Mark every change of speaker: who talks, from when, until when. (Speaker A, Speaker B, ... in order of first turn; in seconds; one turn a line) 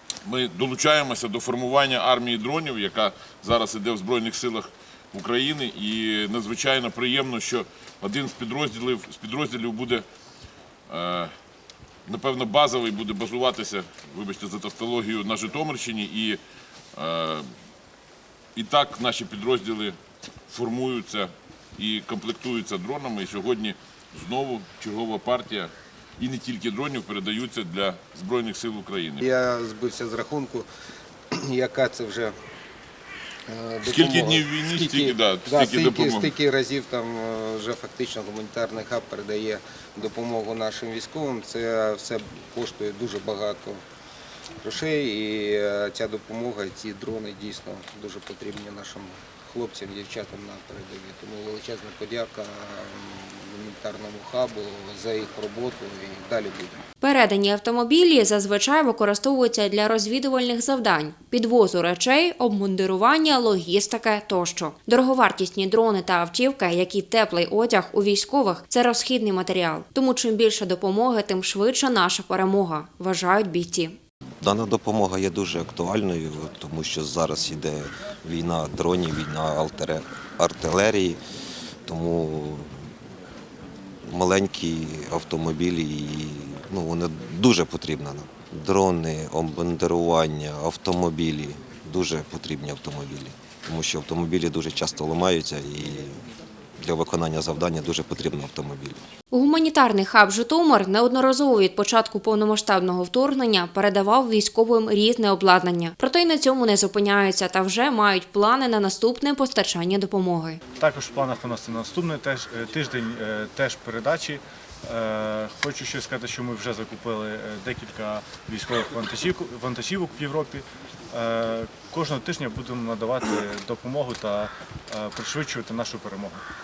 Speaker A: 0.2-10.1
Speaker A: 10.9-11.3
Speaker A: 12.1-16.4
Speaker A: 16.9-17.5
Speaker A: 18.6-20.0
Speaker A: 20.5-29.2
Speaker B: 29.2-30.7
Speaker B: 31.3-32.4
Speaker B: 33.5-43.8
Speaker A: 33.8-36.4
Speaker B: 44.6-56.8
Speaker C: 57.0-74.0
Speaker D: 74.4-81.2
Speaker D: 81.8-82.9
Speaker D: 84.1-96.2
Speaker D: 96.8-99.0
Speaker C: 99.3-110.6
Speaker E: 110.8-126.4